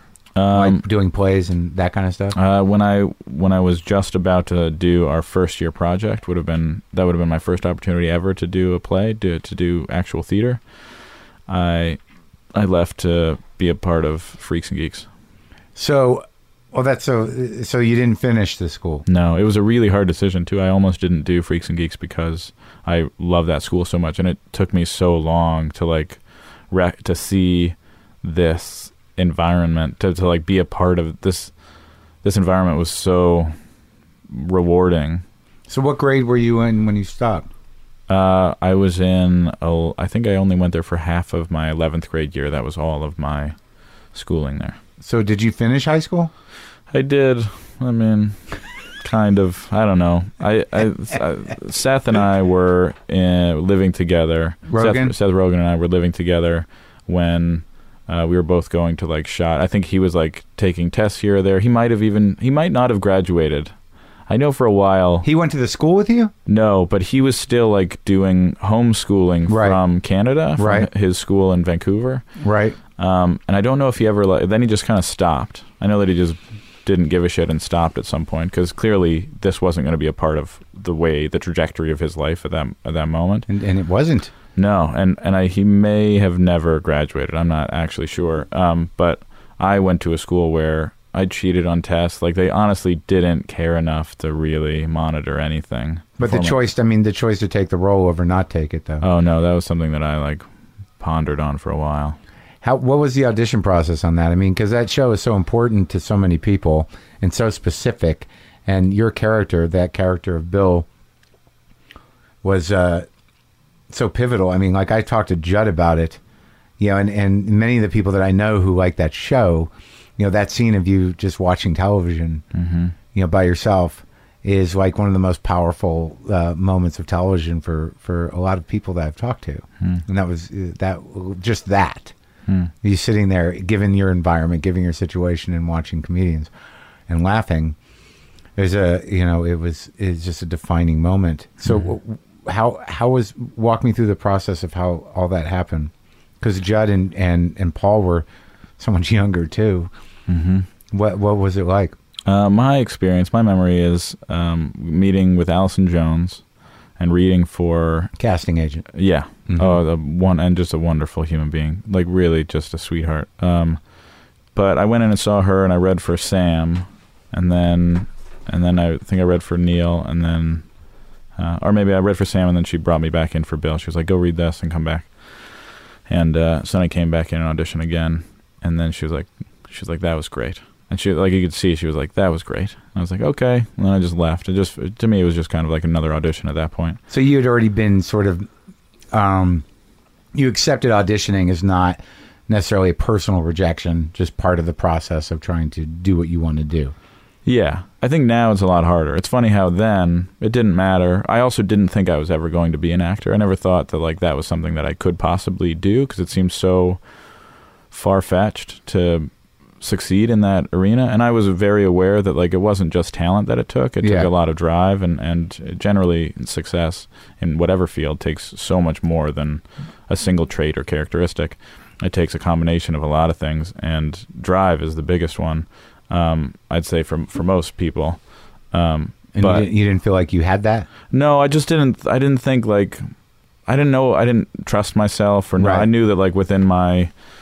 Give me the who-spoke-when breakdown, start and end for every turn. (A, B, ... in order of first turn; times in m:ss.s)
0:00.4-0:00.8 A
0:00.5-0:02.4 B
0:02.3-0:10.6 A
0:11.5-0:12.0 A
0:12.5-0:15.1 A
0:15.8-0:19.0 B
0:19.1-0:31.5 A
0:32.2-0:33.5 A
0:34.3-0:35.2 A
0:35.7-0:37.5 B
0:38.1-0:43.6 A
0:44.1-0:44.8 A
0:45.0-0:46.3 B
0:46.9-0:48.4 A
0:49.0-1:03.7 A
0:54.7-0:55.1 B
1:04.3-1:05.3 A
1:05.2-1:06.3 B
1:06.4-1:12.2 A
1:09.5-1:09.8 B
1:10.6-1:10.9 B
1:12.4-1:12.8 B
1:13.0-1:23.5 A
1:23.5-1:24.3 B
1:24.6-1:36.6 A
1:36.2-1:39.0 B
1:39.0-1:40.4 A
1:41.0-1:42.2 A
1:42.6-1:50.9 B
1:52.4-1:53.1 B
1:53.9-1:56.2 B
1:56.8-2:02.4 B
2:02.5-2:02.9 A
2:03.1-2:12.1 B
2:12.5-2:12.7 A
2:12.8-2:16.5 B
2:17.1-2:17.8 B
2:18.6-2:28.3 B
2:28.8-2:29.9 B
2:30.3-2:30.7 A
2:30.9-2:31.9 B
2:32.3-2:36.4 A
2:37.0-2:38.1 A
2:38.2-2:38.9 B
2:38.9-2:43.8 A
2:39.5-2:39.8 B
2:44.5-2:50.7 A
2:51.4-3:07.0 A
3:07.1-3:08.4 B
3:09.1-3:09.6 B
3:10.3-3:16.9 B
3:17.4-3:27.0 A
3:27.9-3:49.7 A
3:34.0-3:34.3 B
3:49.3-3:50.9 B
3:51.1-3:53.0 A
3:53.7-3:57.1 A
3:55.6-3:55.9 B